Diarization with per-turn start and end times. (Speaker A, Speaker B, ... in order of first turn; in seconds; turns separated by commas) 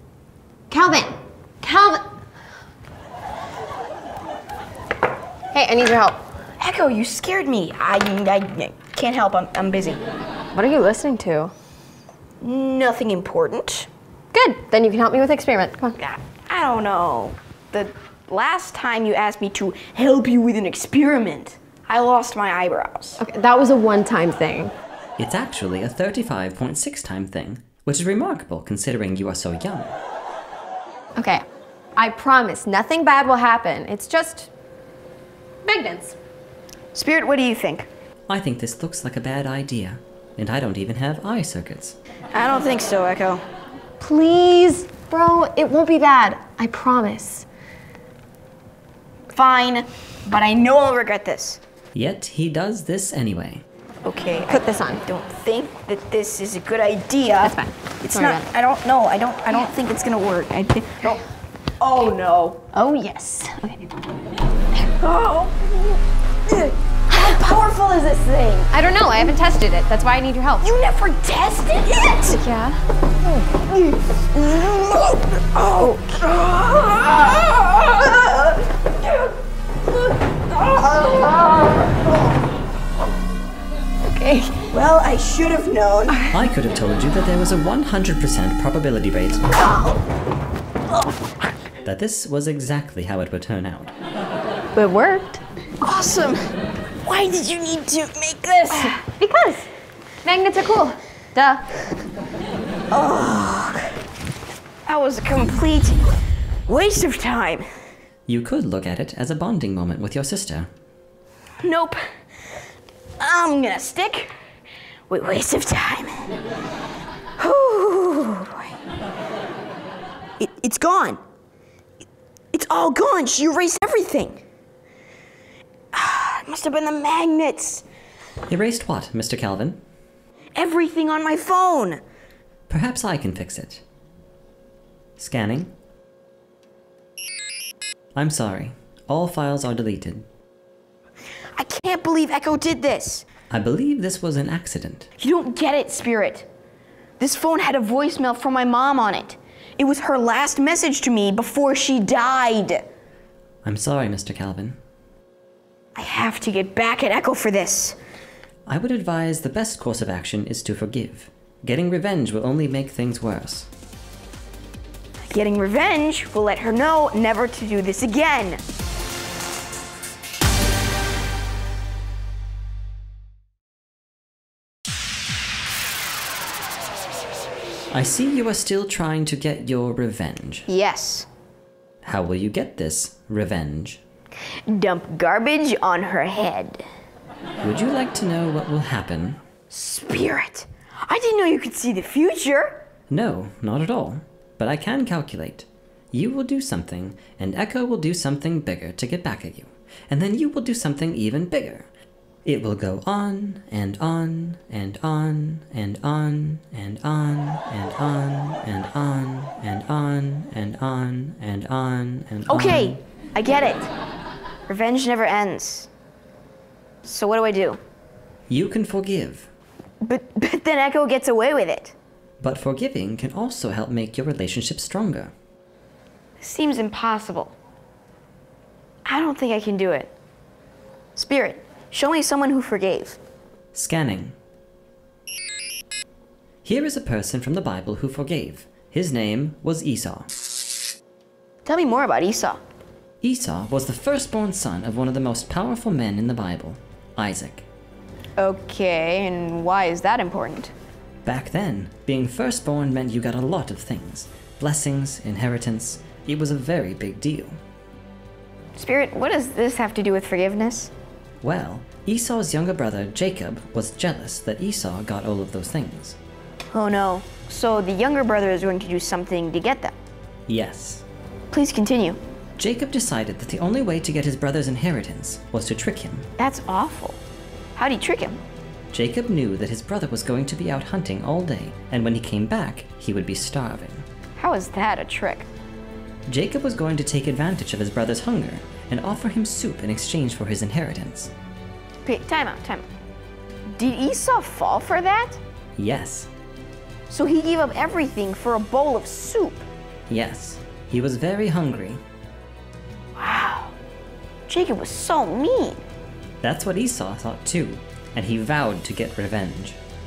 Speaker A: 0.7-2.0, Speaker A: 5.5-6.2, Speaker B: 6.6-10.0, Speaker A: 10.5-11.5, Speaker B: 12.4-13.9, Speaker A: 14.3-16.0, Speaker B: 16.0-23.2, Speaker A: 23.2-24.7, Speaker C: 25.2-29.9, Speaker A: 31.1-31.4, Speaker A: 31.9-34.5, Speaker A: 35.6-36.1, Speaker B: 36.9-37.9, Speaker C: 38.3-42.0, Speaker B: 42.3-43.4, Speaker A: 44.0-47.5, Speaker B: 49.3-51.6, Speaker C: 51.9-53.6, Speaker B: 54.0-61.2, Speaker A: 54.5-55.0, Speaker A: 57.4-58.5, Speaker B: 61.8-62.6, Speaker A: 62.7-63.9, Speaker B: 65.0-68.7, Speaker A: 68.7-70.7, Speaker B: 70.6-72.4, Speaker A: 72.3-72.8, Speaker B: 73.4-79.3, Speaker B: 80.3-82.3, Speaker A: 84.2-84.5, Speaker B: 84.5-86.2, Speaker C: 86.3-89.4, Speaker B: 89.5-90.0, Speaker C: 91.8-93.9, Speaker A: 94.7-95.4, Speaker B: 95.8-96.5, Speaker B: 97.0-99.0, Speaker A: 98.7-99.7, Speaker A: 100.2-101.7, Speaker B: 102.9-103.9, Speaker B: 104.8-106.0, Speaker B: 106.7-107.7, Speaker C: 108.3-110.7, Speaker B: 111.6-112.0, Speaker B: 113.2-114.3, Speaker B: 115.1-116.3, Speaker B: 117.4-118.7, Speaker B: 120.4-121.2, Speaker B: 122.5-124.4, Speaker B: 125.9-127.8, Speaker C: 128.5-129.8, Speaker B: 130.5-132.0, Speaker C: 132.7-133.8, Speaker C: 135.2-135.7, Speaker C: 138.1-140.2, Speaker B: 141.6-143.2, Speaker C: 143.5-145.1, Speaker B: 145.2-146.5, Speaker B: 147.2-152.8, Speaker C: 153.6-154.8, Speaker B: 155.9-158.0, Speaker C: 158.7-163.7, Speaker B: 165.2-168.6, Speaker C: 177.9-180.7, Speaker B: 180.7-181.3, Speaker C: 182.0-184.0, Speaker B: 184.7-186.8, Speaker C: 187.6-189.4, Speaker B: 189.7-192.8, Speaker C: 193.1-201.9, Speaker C: 202.4-213.0, Speaker B: 212.5-213.9, Speaker B: 214.7-215.9, Speaker B: 217.0-217.8, Speaker C: 218.5-219.5, Speaker B: 220.0-221.9, Speaker C: 222.4-225.3, Speaker B: 226.4-227.5, Speaker B: 229.1-230.1, Speaker B: 231.2-233.2, Speaker C: 233.7-234.3, Speaker C: 236.6-240.3, Speaker B: 241.6-242.6, Speaker C: 243.2-247.7, Speaker B: 248.4-250.7, Speaker C: 251.2-257.6, Speaker B: 258.8-260.9, Speaker C: 261.4-266.2, Speaker B: 266.7-269.9, Speaker C: 270.5-271.0, Speaker B: 271.5-272.2, Speaker C: 272.6-276.3, Speaker B: 276.4-277.2, Speaker B: 277.8-278.4, Speaker C: 278.9-284.0, Speaker B: 284.4-285.5, Speaker C: 286.3-291.3, Speaker B: 292.0-292.9, Speaker B: 293.7-295.4, Speaker C: 295.8-296.3, Speaker B: 297.1-299.6, Speaker C: 300.1-302.0, Speaker B: 303.1-303.7, Speaker B: 304.5-305.8, Speaker C: 306.4-309.8